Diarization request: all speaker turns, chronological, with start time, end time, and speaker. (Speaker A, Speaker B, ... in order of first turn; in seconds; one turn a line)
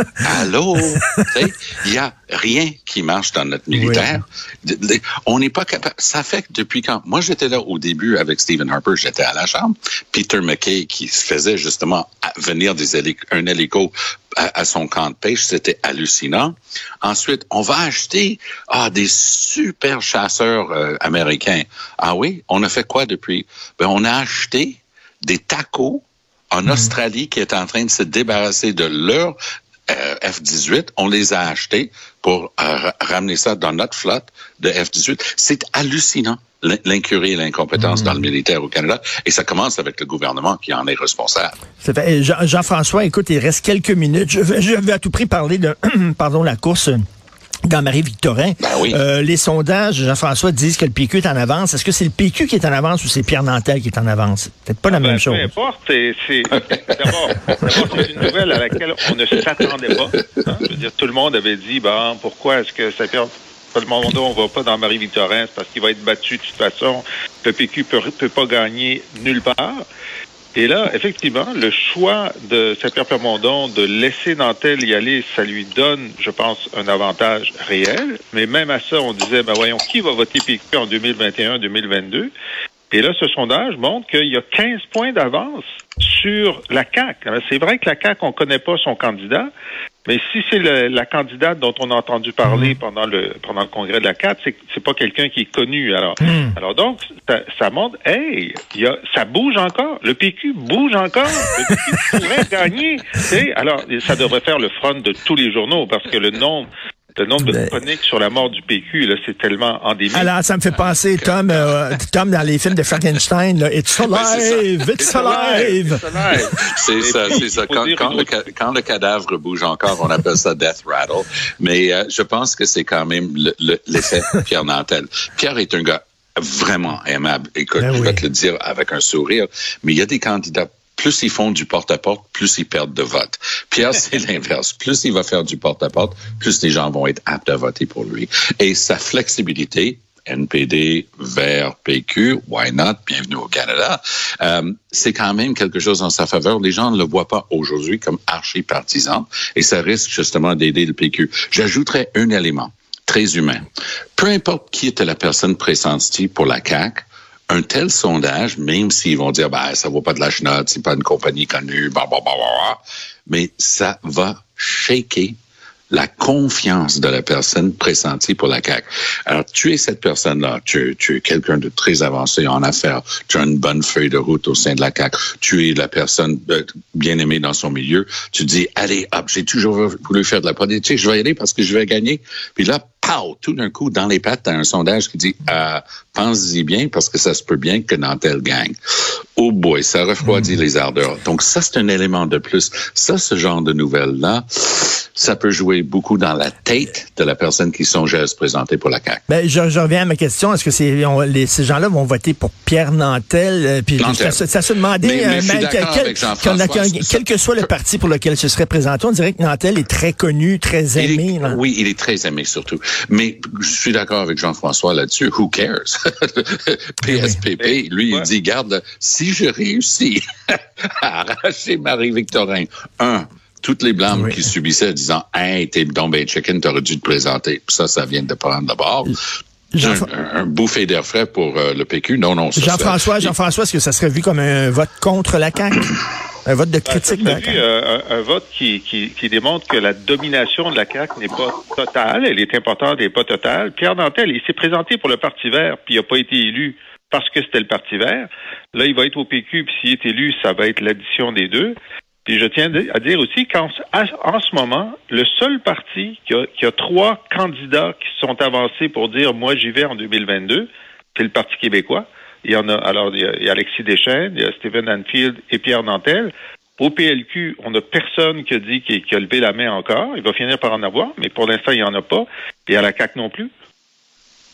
Speaker A: 0.2-29.4
Speaker B: 3.7-4.2
Speaker A: 29.9-41.5
Speaker B: 37.8-38.2
Speaker B: 41.8-47.0
Speaker B: 47.6-55.5
Speaker A: 48.6-49.0
Speaker C: 54.9-69.8
Speaker C: 70.5-82.3
Speaker C: 82.9-89.5
Speaker C: 90.0-110.3
Speaker B: 92.4-92.8
Speaker B: 96.2-96.5
Speaker B: 107.4-107.7
Speaker B: 110.1-116.3
Speaker A: 110.7-111.7
Speaker A: 114.1-115.7
Speaker C: 115.0-118.3
Speaker A: 116.7-153.6
Speaker B: 127.8-128.2
Speaker A: 154.2-165.4
Speaker A: 165.9-188.7
Speaker A: 189.4-199.2
Speaker B: 190.2-190.5
Speaker B: 199.3-211.6
Speaker A: 204.0-204.4
Speaker A: 205.0-207.7
Speaker A: 210.9-229.2
Speaker B: 217.0-217.4
Speaker C: 217.6-218.3
Speaker B: 224.1-224.5
Speaker B: 229.7-230.1
Speaker A: 229.8-233.3
Speaker B: 232.5-237.6
Speaker C: 236.8-273.5